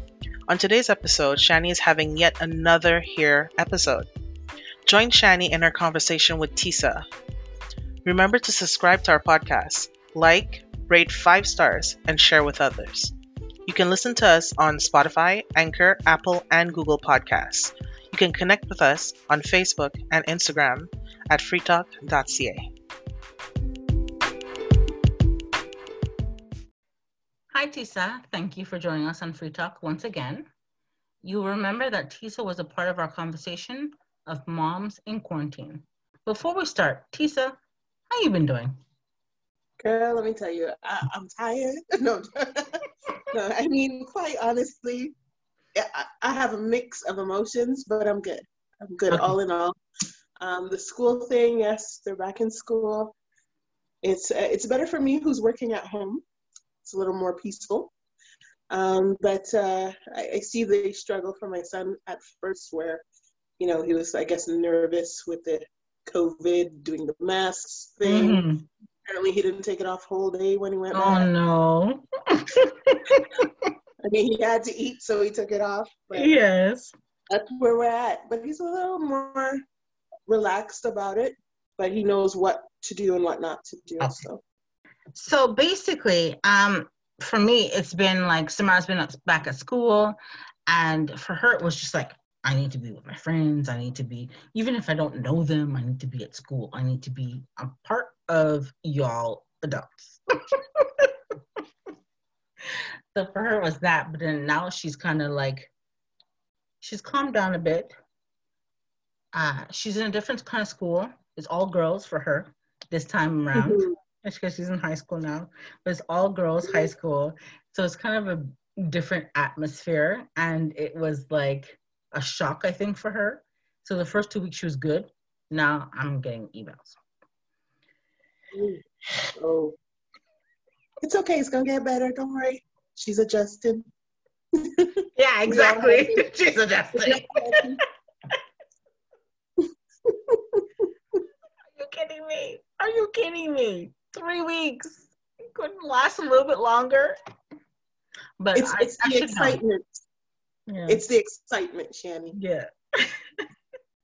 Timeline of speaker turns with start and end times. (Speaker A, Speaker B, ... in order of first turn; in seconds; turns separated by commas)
Speaker A: 0.5-4.1, Speaker A: 4.9-7.0, Speaker A: 8.1-13.1, Speaker A: 13.7-22.6, Speaker B: 27.5-30.5, Speaker B: 31.2-37.6, Speaker B: 38.1-38.8, Speaker C: 39.8-45.1, Speaker C: 45.8-49.8, Speaker B: 49.1-49.4, Speaker C: 50.4-53.1, Speaker C: 54.0-56.2, Speaker C: 56.8-57.9, Speaker C: 58.7-63.0, Speaker C: 63.6-68.4, Speaker B: 68.0-68.7, Speaker C: 69.1-71.3, Speaker B: 70.9-73.7, Speaker C: 74.0-76.3, Speaker B: 76.1-76.9, Speaker C: 77.3-79.6, Speaker C: 80.3-84.4, Speaker B: 85.1-101.1, Speaker B: 103.2-105.7, Speaker B: 106.8-107.9, Speaker B: 109.3-127.0, Speaker C: 113.6-113.9, Speaker C: 128.5-128.8, Speaker C: 129.4-129.8, Speaker C: 131.0-133.9, Speaker C: 134.6-136.3, Speaker B: 135.2-137.3, Speaker C: 136.9-137.8, Speaker C: 140.1-140.8, Speaker B: 141.7-147.2, Speaker B: 148.4-149.6, Speaker C: 148.6-150.0, Speaker B: 150.7-151.0, Speaker C: 150.9-152.4, Speaker B: 152.3-153.5